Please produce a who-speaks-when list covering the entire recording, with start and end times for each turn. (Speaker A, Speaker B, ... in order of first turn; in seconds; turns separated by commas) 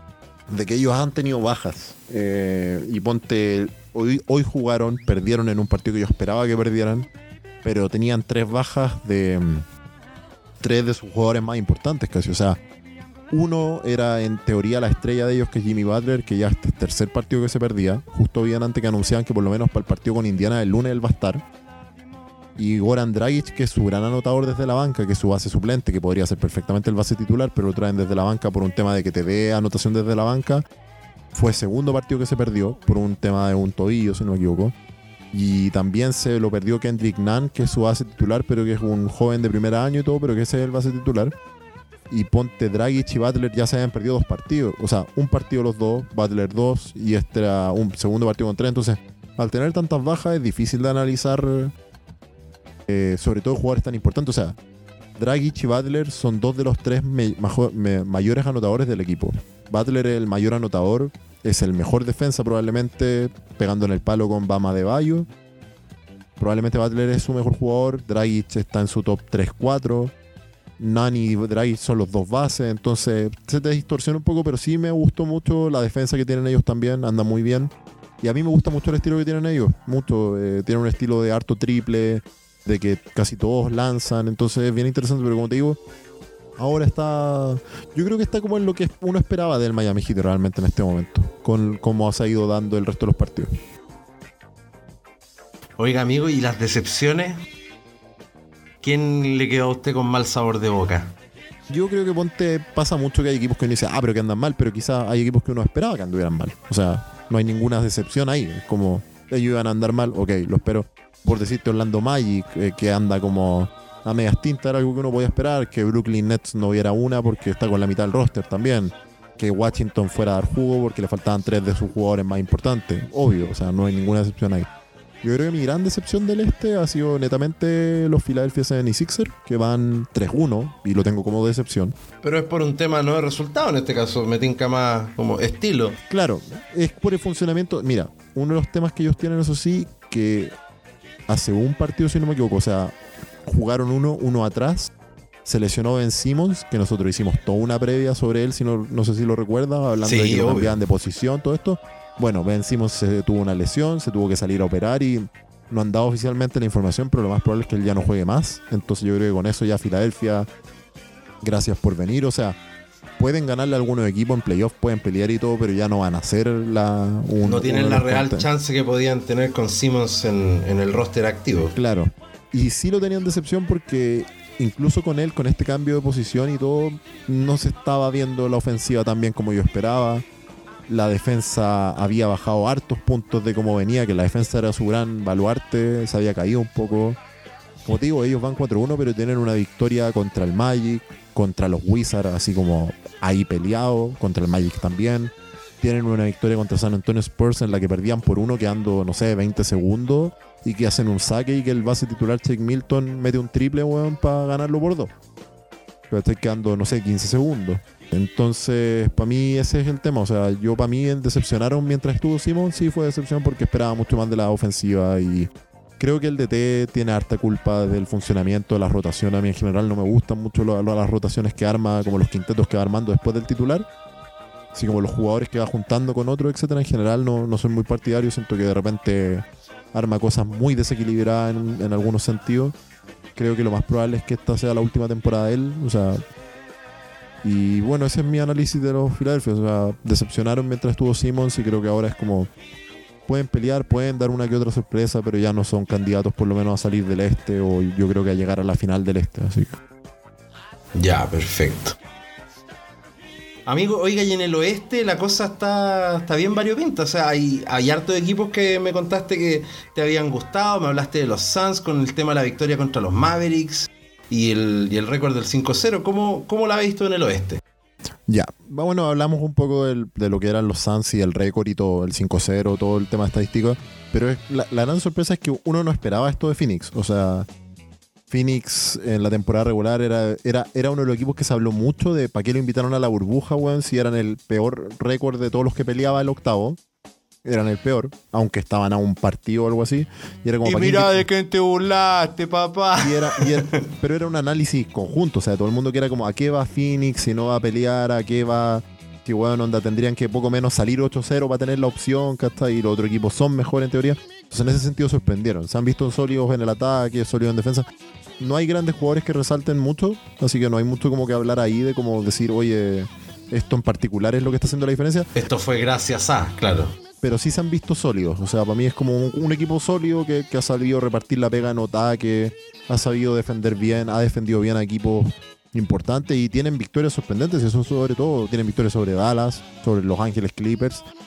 Speaker A: 0.5-7.1, Speaker A: 7.6-9.7, Speaker A: 10.6-12.6, Speaker A: 13.3-21.4, Speaker A: 22.6-30.6, Speaker A: 31.3-34.7, Speaker A: 35.3-41.3, Speaker A: 42.1-51.7, Speaker A: 52.9-54.6, Speaker A: 55.2-65.3, Speaker A: 66.4-70.1, Speaker A: 70.8-85.8, Speaker A: 86.6-93.5, Speaker B: 95.8-97.4, Speaker B: 98.8-101.1, Speaker A: 101.7-124.7, Speaker A: 125.2-132.0, Speaker B: 132.2-136.0, Speaker A: 136.1-140.5, Speaker A: 141.3-142.9, Speaker A: 143.5-144.9, Speaker A: 145.5-160.5, Speaker B: 150.0-150.8, Speaker A: 161.4-162.6, Speaker A: 163.2-168.5, Speaker B: 167.4-171.7, Speaker A: 171.8-180.2, Speaker A: 180.9-187.2, Speaker A: 187.9-205.1, Speaker A: 206.1-223.9, Speaker A: 224.7-232.8, Speaker A: 233.4-236.2, Speaker A: 237.4-242.5, Speaker A: 243.3-249.8, Speaker B: 251.0-252.0, Speaker B: 253.7-267.6, Speaker A: 268.3-277.5, Speaker A: 278.3-286.8, Speaker A: 287.4-291.3, Speaker B: 290.6-293.8, Speaker A: 293.0-307.9, Speaker A: 308.4-315.3, Speaker B: 315.4-316.9, Speaker A: 317.2-331.0